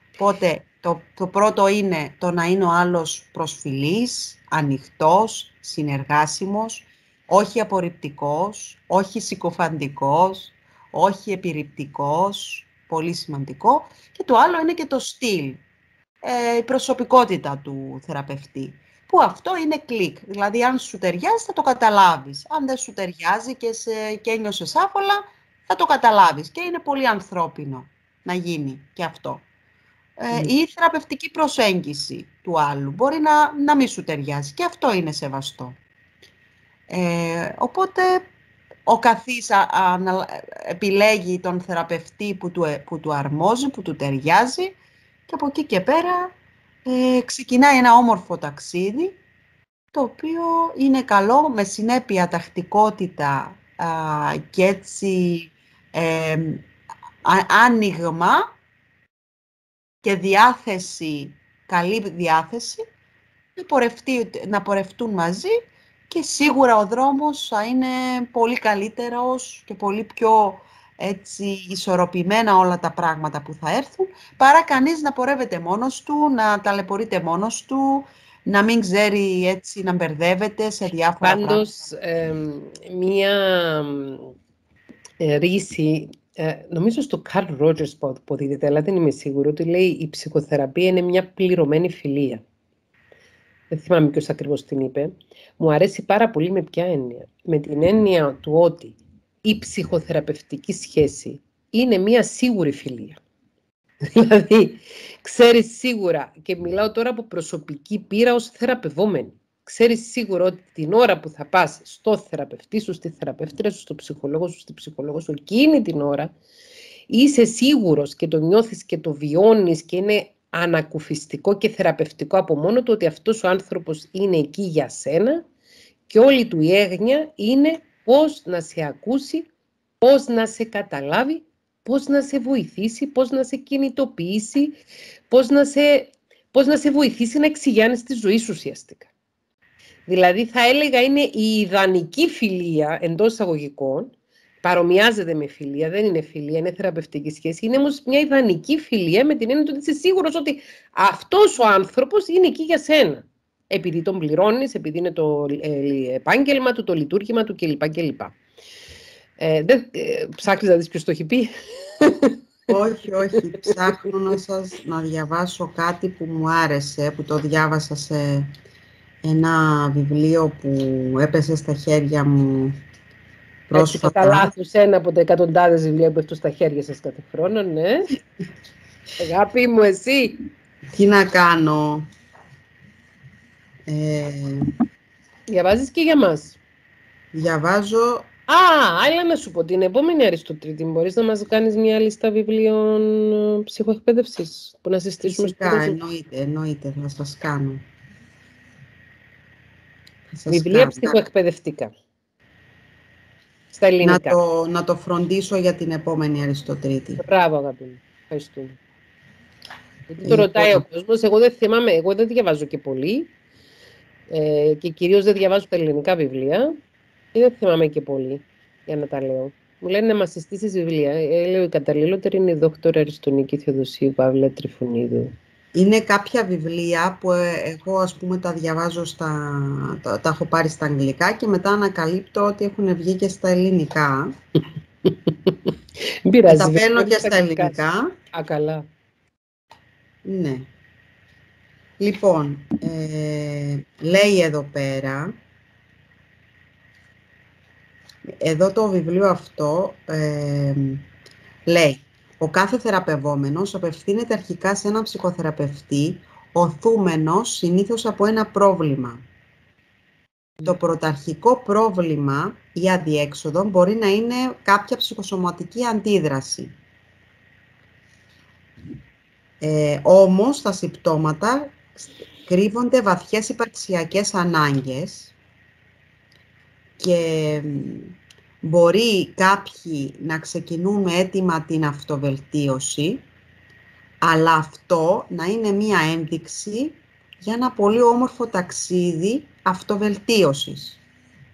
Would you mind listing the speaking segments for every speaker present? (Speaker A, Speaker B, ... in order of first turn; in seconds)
Speaker A: 0.2-15.6, 16.2-29.4, 30.2-35.7, 36.9-38.2, 38.9-44.8, 45.3-46.3, 46.8-49.1, 49.9-56.6, 57.2-58.4, 60.0-62.8, 63.5-65.5, 66.1-81.7, 162.7-168.5, 169.2-172.7, 173.7-174.5, 180.9-182.1, 183.9-184.7, 187.3-188.3, 195.2-197.8, 200.3-201.2, 204.0-207.2, 210.2-210.8, 225.7-234.3, 236.5-238.1, 240.2-240.7, 242.0-245.3, 248.4-251.0, 251.7-259.2, 260.6-266.7, 269.6-275.3, 277.0-283.2, 284.2-291.0
Speaker B: 81.2-84.3, 85.2-92.4, 93.7-103.2, 104.0-116.3, 117.1-125.4, 126.1-129.5, 130.0-134.8, 135.3-139.1, 140.1-158.3, 159.4-162.7, 173.7-178.1, 179.2-180.4, 185.5-186.6, 188.5-196.0, 200.5-201.9, 203.7-204.4, 207.2-208.8, 210.1-213.3, 214.3-216.7, 217.3-225.3, 235.1-235.7, 236.2-238.8